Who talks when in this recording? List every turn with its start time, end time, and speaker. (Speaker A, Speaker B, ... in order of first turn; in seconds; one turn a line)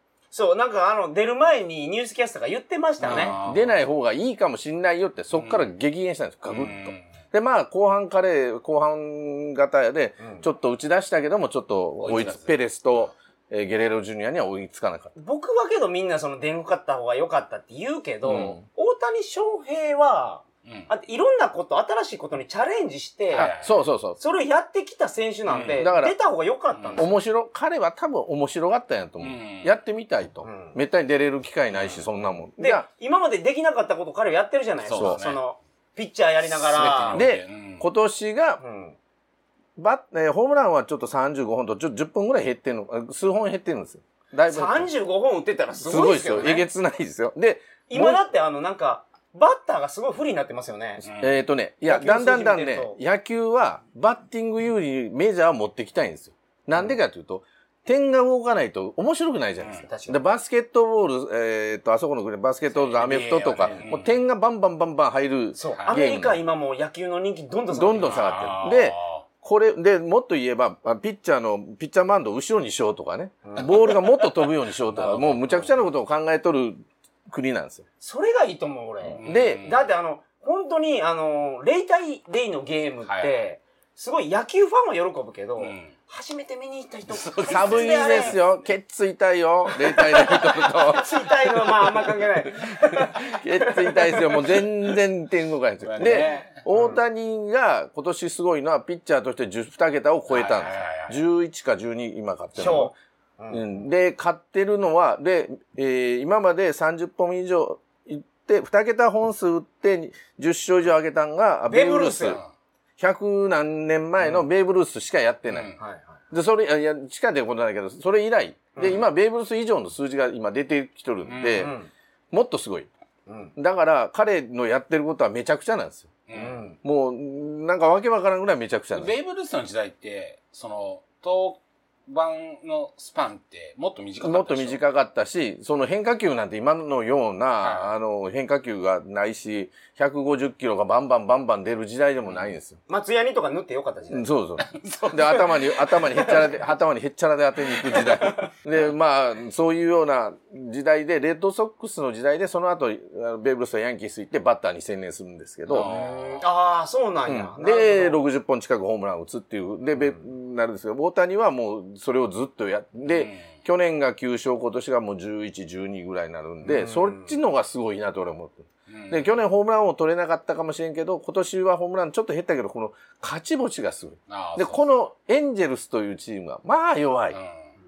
Speaker A: 0.3-3.4
Speaker B: 3.0-3.8
Speaker C: 3.1-15.1
Speaker B: 5.3-5.7
Speaker B: 6.5-7.0
Speaker A: 10.2-10.4
Speaker B: 12.0-13.1
Speaker A: 15.2-23.5
Speaker C: 18.2-18.6
Speaker B: 20.6-20.9
Speaker B: 23.3-23.7
Speaker C: 23.3-24.2
Speaker A: 24.2-27.1
Speaker B: 25.5-25.9
Speaker C: 25.8-26.1
Speaker B: 26.7-27.1
Speaker C: 26.9-32.8
Speaker B: 29.2-29.8
Speaker A: 30.4-30.8
Speaker B: 31.7-32.0
Speaker A: 32.6-37.2
Speaker B: 34.9-35.4
Speaker C: 35.0-35.2
Speaker B: 36.5-37.8
Speaker C: 37.1-38.6
Speaker A: 38.6-39.0
Speaker C: 39.8-44.9
Speaker A: 44.5-46.7
Speaker C: 45.8-48.2
Speaker A: 47.9-51.0
Speaker B: 51.0-51.4
Speaker C: 51.2-66.4
Speaker A: 51.8-53.0
Speaker A: 59.8-60.2
Speaker A: 62.8-63.9
Speaker B: 63.6-64.1
Speaker A: 65.5-68.3
Speaker C: 67.7-77.8
Speaker B: 68.0-69.2
Speaker A: 73.4-73.9
Speaker B: 74.8-75.5
Speaker A: 78.0-88.4
Speaker B: 79.1-79.8
Speaker C: 79.2-79.7
Speaker B: 83.1-83.3
Speaker B: 85.6-85.9
Speaker B: 87.1-88.4
Speaker C: 87.5-92.0
Speaker A: 89.8-94.6
Speaker C: 92.9-102.9
Speaker B: 95.8-96.6
Speaker A: 96.7-97.0
Speaker B: 100.3-101.2
Speaker A: 102.6-103.8
Speaker C: 103.5-112.4
Speaker A: 111.7-112.4
Speaker C: 113.0-115.7
Speaker A: 114.2-114.5
Speaker B: 115.5-115.8
Speaker A: 115.8-116.2
Speaker C: 116.3-121.7
Speaker A: 118.8-119.0
Speaker B: 121.3-121.7
Speaker A: 121.5-121.9
Speaker C: 122.3-122.9
Speaker A: 123.3-123.5
Speaker C: 123.5-126.1
Speaker B: 126.3-126.6
Speaker A: 126.3-126.8
Speaker C: 126.8-129.1
Speaker B: 128.9-134.8
Speaker C: 134.2-142.8
Speaker B: 137.6-137.9
Speaker B: 142.2-142.5
Speaker A: 142.9-144.3
Speaker C: 144.1-155.9
Speaker B: 144.6-145.7
Speaker A: 147.9-148.5
Speaker B: 155.7-156.5
Speaker A: 155.8-158.2
Speaker C: 157.3-177.4
Speaker B: 163.0-163.5
Speaker A: 166.6-167.3
Speaker B: 168.9-169.4
Speaker B: 174.3-174.8
Speaker B: 177.3-177.7